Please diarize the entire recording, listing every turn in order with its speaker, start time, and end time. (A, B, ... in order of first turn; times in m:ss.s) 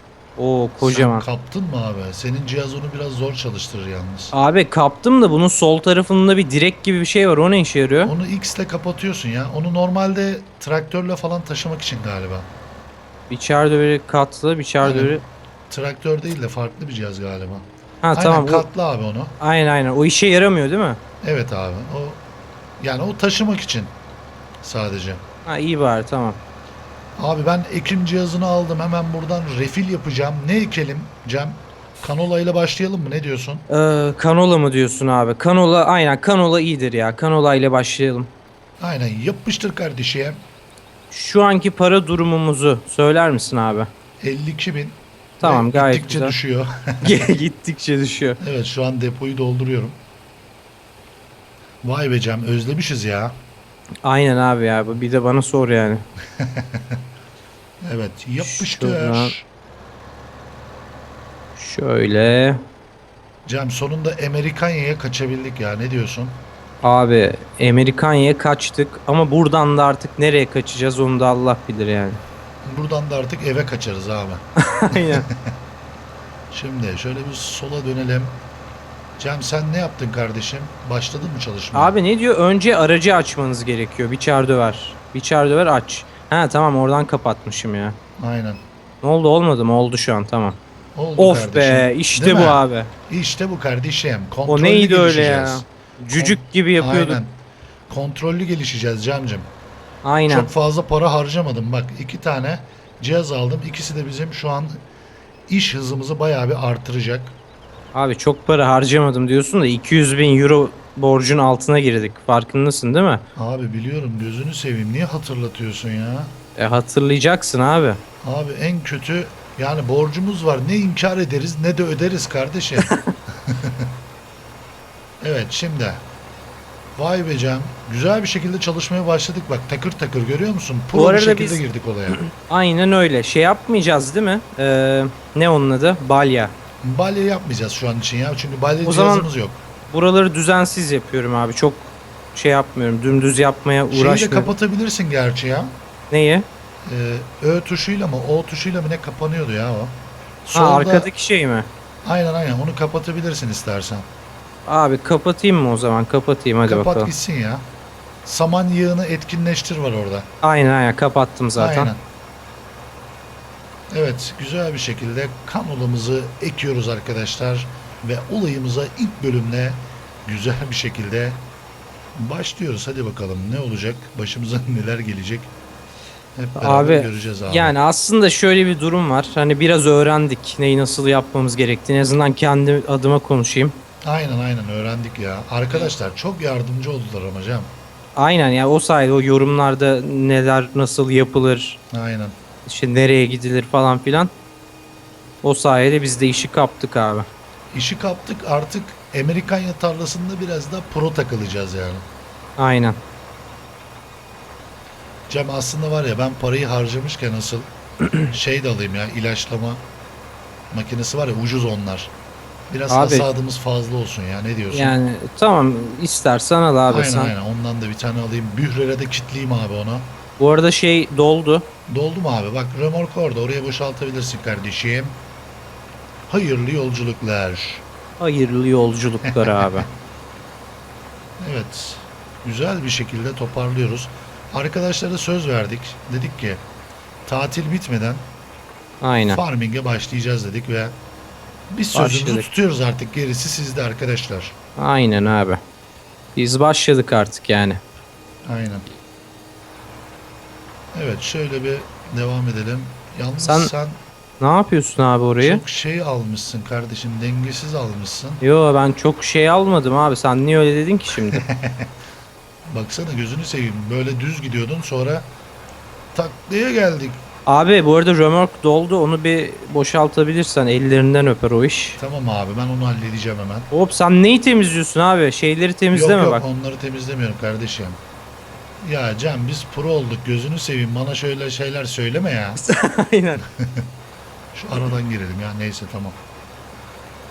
0:00.4-0:01.2 A
0:00.8-0:04.3 B
0:04.3-0:08.1 A
0:08.0-0:12.5 B
0:13.3-0:15.2 A
0:14.8-0:15.2 B
0:15.7-0:19.4 B
0:18.0-0:18.7 A
0:19.4-0:21.0 A
0:21.2-0:22.2 B
0:22.8-0:23.9 B
0:24.6-0:25.2 B
0:25.5-0:26.4 A
0:27.2-0:33.6 B
0:33.7-0:38.3 A
0:38.8-0:40.4 B
0:41.1-0:43.9 A
0:44.2-0:47.0 B
0:45.4-0:46.4 A
0:47.0-0:48.4 A
0:48.4-0:50.0 B
0:51.8-0:53.4 B
0:54.0-0:56.0 A
0:56.4-0:57.0 B
0:57.8-0:59.5 B
0:58.4-0:59.4 A
1:01.6-1:02.6 A
1:03.5-1:06.4 B
1:06.8-1:12.2 A
1:12.6-1:15.5 B
1:14.6-1:15.2 A
1:16.5-1:18.4 B
1:19.2-1:21.9 B
1:21.7-1:28.0 A
1:28.2-1:28.6 B
1:29.0-1:30.6 A
1:31.0-1:35.6 B
1:31.2-1:32.9 A
1:34.5-1:37.2 A
1:36.2-1:37.4 B
1:37.9-1:39.5 B
1:40.0-1:40.5 A
1:40.3-1:44.8 B
1:45.5-1:47.4 B
1:47.9-1:53.2 A
1:53.4-1:56.3 B
1:56.6-1:58.0 A
1:58.2-2:03.9 B
2:05.2-2:06.0 B
2:07.0-2:12.2 B
2:10.9-2:11.6 A
2:12.4-2:16.5 A
2:16.8-2:19.6 B
2:18.8-2:19.3 A
2:19.9-2:24.5 A
2:23.9-2:25.8 B
2:26.1-2:26.5 A
2:26.8-2:31.1 B
2:30.5-2:31.7 A
2:32.0-2:34.1 B
2:34.6-2:37.1 A
2:36.6-2:37.6 B
2:38.2-2:40.3 B
2:40.4-2:41.9 A
2:41.6-2:42.0 B
2:43.9-2:51.4 B
2:52.1-2:55.5 B
2:56.4-2:57.7 B
2:56.6-3:03.8 A
3:04.0-3:07.7 B
3:08.2-3:11.8 A
3:11.9-3:12.4 B
3:12.6-3:14.3 A
3:15.4-3:17.3 A
3:17.7-3:22.0 B
3:22.6-3:23.0 A
3:25.3-3:27.7 B
3:28.2-3:29.8 B
3:30.7-3:32.1 B
3:32.7-3:35.0 B
3:32.9-3:33.3 A
3:34.7-3:37.3 A
3:36.9-3:40.1 B
3:40.4-3:41.7 A
3:41.9-3:45.2 B
3:46.3-3:47.8 B
3:48.2-3:49.9 A
3:49.2-3:49.9 B
3:51.4-3:56.6 B
3:57.2-3:58.2 B
3:59.0-3:59.4 A
3:59.3-4:01.0 B
4:01.7-4:04.5 B
4:01.9-4:02.5 A
4:04.8-4:05.6 A
4:06.4-4:07.8 A
4:08.4-4:08.8 B
4:10.9-4:14.0 B
4:13.4-4:13.7 A
4:14.4-4:15.6 A
4:15.4-4:18.4 B
4:18.4-4:21.4 A
4:21.4-4:21.9 B
4:22.6-4:25.3 B
4:26.1-4:27.2 B
4:27.5-4:32.0 A
4:32.0-4:33.7 B
4:33.7-4:36.4 A
4:35.9-4:38.0 B
4:38.8-4:42.6 B
4:42.6-4:43.4 A
4:43.6-4:43.9 B
4:44.5-4:46.2 B